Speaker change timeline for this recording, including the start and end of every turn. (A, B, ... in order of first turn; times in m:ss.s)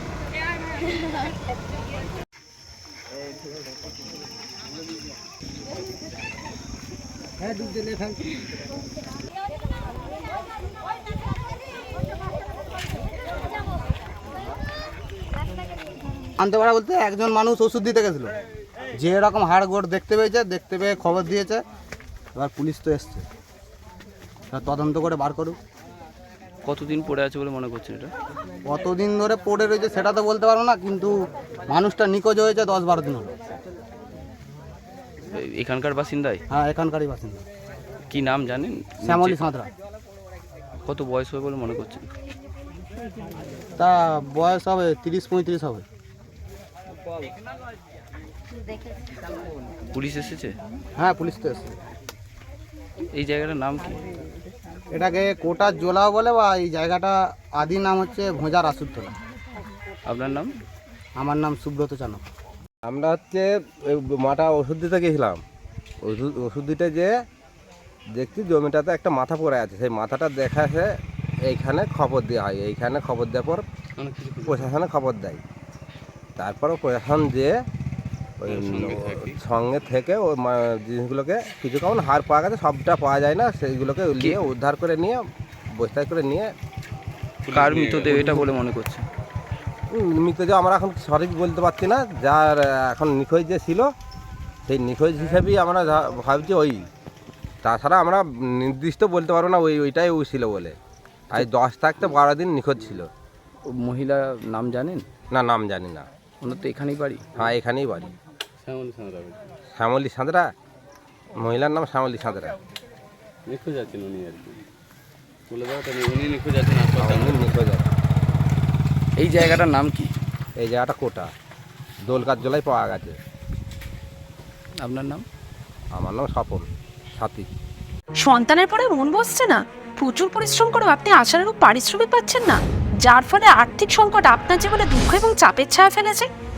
0:16.4-0:18.4 A
0:18.9-0:21.6 A
0:22.4-0:23.3 A
0:24.5-0:25.6 A
0:26.6-0:28.1 B
0:28.6-0:33.3 A
0:35.3-0:36.4 B
0:36.5-0:37.4 A
0:38.1-0:39.4 B
0:39.0-0:39.7 A
0:40.8-0:42.1 B
0:43.8-0:45.9 A
0:49.9-0:50.6 B
0:51.0-0:51.8 A
0:53.1-0:54.0 B
0:54.9-0:59.2 A
1:00.0-1:00.6 B
1:01.2-1:02.3 A
1:02.8-1:05.4 C
1:06.0-1:07.1 C
1:08.1-1:13.6 C
1:14.0-1:14.7 D
1:14.5-1:15.4 C
1:16.4-1:17.6 C
1:18.4-1:26.5 C
1:18.4-1:19.4 D
1:27.4-1:28.5 D
1:27.5-1:29.1 B
1:29.9-1:33.9 C
1:34.7-1:36.9 C
1:37.6-1:40.8 C
1:41.3-1:43.1 C
1:43.6-1:45.1 B
1:45.3-1:46.1 C
1:46.4-1:47.3 B
1:47.4-1:48.1 C
1:48.6-1:49.4 D
1:49.8-1:50.5 C
1:51.4-1:52.6 C
1:53.5-1:54.6 D
1:55.5-1:57.6 D
1:57.0-1:57.9 C
1:59.2-2:00.1 B
2:00.6-2:01.3 C
2:02.0-2:03.2 C
2:04.8-2:05.3 B
2:06.0-2:07.5 C
2:08.2-2:16.3 E